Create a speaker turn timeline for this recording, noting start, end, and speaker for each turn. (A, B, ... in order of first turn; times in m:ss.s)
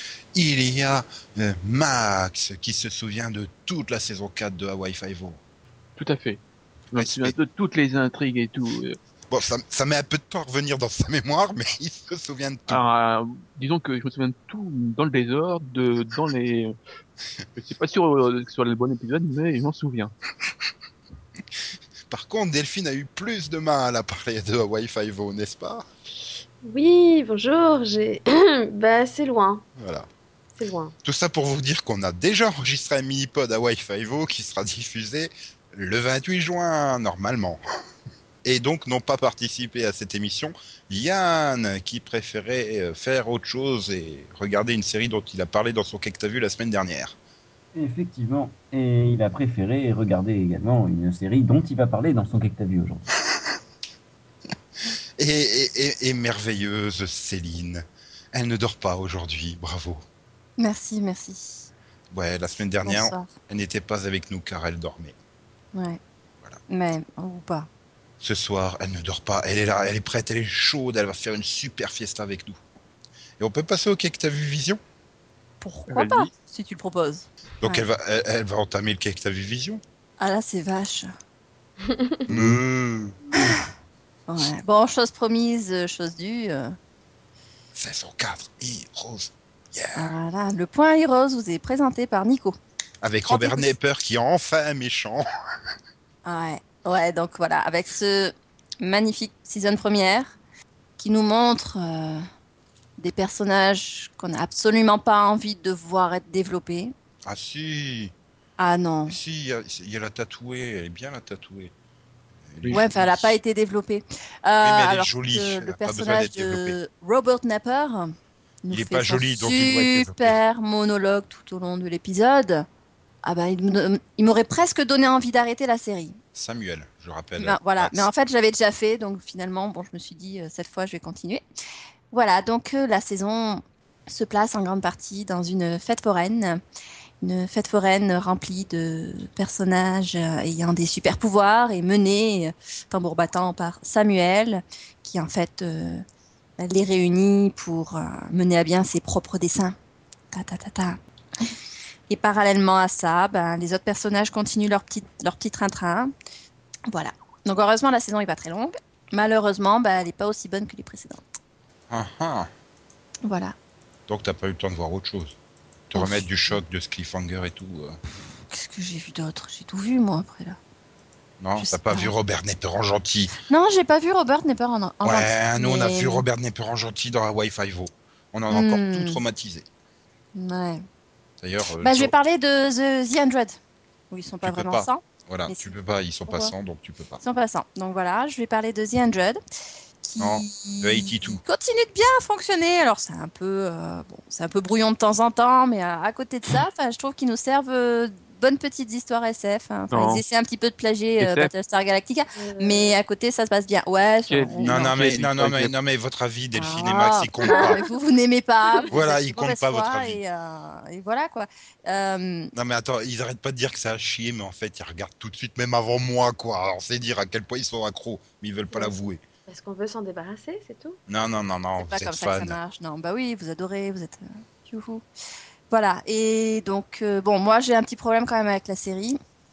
0:00.3-0:05.4 A
0:06.0-0:06.4 B
0:06.9-0:09.0 B
0:07.0-0:07.3 A
0:09.3-0:12.8 A
0:12.7-0:16.7 B
0:17.6-0:20.1 B
0:22.1-0:25.8 A
0:26.6-0:29.6 C
0:29.8-0:30.1 A
0:30.6-0:30.9 C
0:31.0-0:37.6 A
0:38.4-0:47.2 A
0:47.7-0:53.1 D
0:55.2-1:00.0 A
1:00.6-1:01.7 E
1:02.1-1:05.2 A
1:02.8-1:03.3 E
1:05.7-1:06.0 E
1:06.7-1:07.7 E
1:08.2-1:12.6 A
1:13.4-1:14.8 A
1:15.6-1:17.8 E
1:15.9-1:16.3 B
1:17.6-1:19.8 A
1:20.2-1:21.1 E
1:21.8-1:22.2 C
1:22.3-1:23.1 A
1:22.3-1:22.6 D
1:24.3-1:26.8 E
1:27.7-1:30.1 A
1:30.0-1:32.6 E
1:33.0-1:35.2 A
1:33.3-1:33.7 E
1:36.2-1:40.4 E
1:41.0-1:42.2 E
1:43.0-1:46.9 E
1:47.2-1:48.1 A
1:48.6-1:49.2 E
1:49.1-1:51.7 A
1:52.5-1:53.4 A
1:52.7-2:02.7 E
1:54.6-1:56.8 A
1:58.7-2:00.4 A
2:03.2-2:06.2 E
2:06.3-2:08.1 A
2:07.4-2:11.4 E
2:12.1-2:16.6 E
2:17.2-2:26.0 E
2:26.6-2:29.8 E
2:30.3-2:31.5 E
2:32.1-2:36.1 E
2:36.9-2:41.2 E
2:41.9-2:42.5 A
2:43.2-2:43.5 E
2:44.1-2:45.3 A
2:45.9-2:48.0 A
2:45.9-2:46.6 E
2:48.5-2:50.6 E
2:51.4-2:53.3 A
2:51.6-2:52.1 E
2:53.5-2:56.2 E
2:55.0-2:59.6 A
2:58.5-2:59.2 E
3:00.3-3:00.8 E
3:01.4-3:02.1 A
3:01.8-3:03.6 E
3:04.1-3:05.7 E
3:04.4-3:07.2 A
3:06.3-3:06.5 E
3:07.2-3:09.4 E
3:10.0-3:25.1 E
3:10.2-3:11.4 A
3:19.9-3:20.2 B
3:21.2-3:21.5 B
3:22.3-3:22.9 C
3:24.3-3:25.7 B
3:24.6-3:27.8 A
3:26.5-3:32.5 E
3:28.9-3:30.2 A
3:32.5-3:39.2 A
3:39.5-3:41.0 C
3:41.1-3:42.5 A
3:41.8-3:45.0 E
3:45.7-3:49.2 E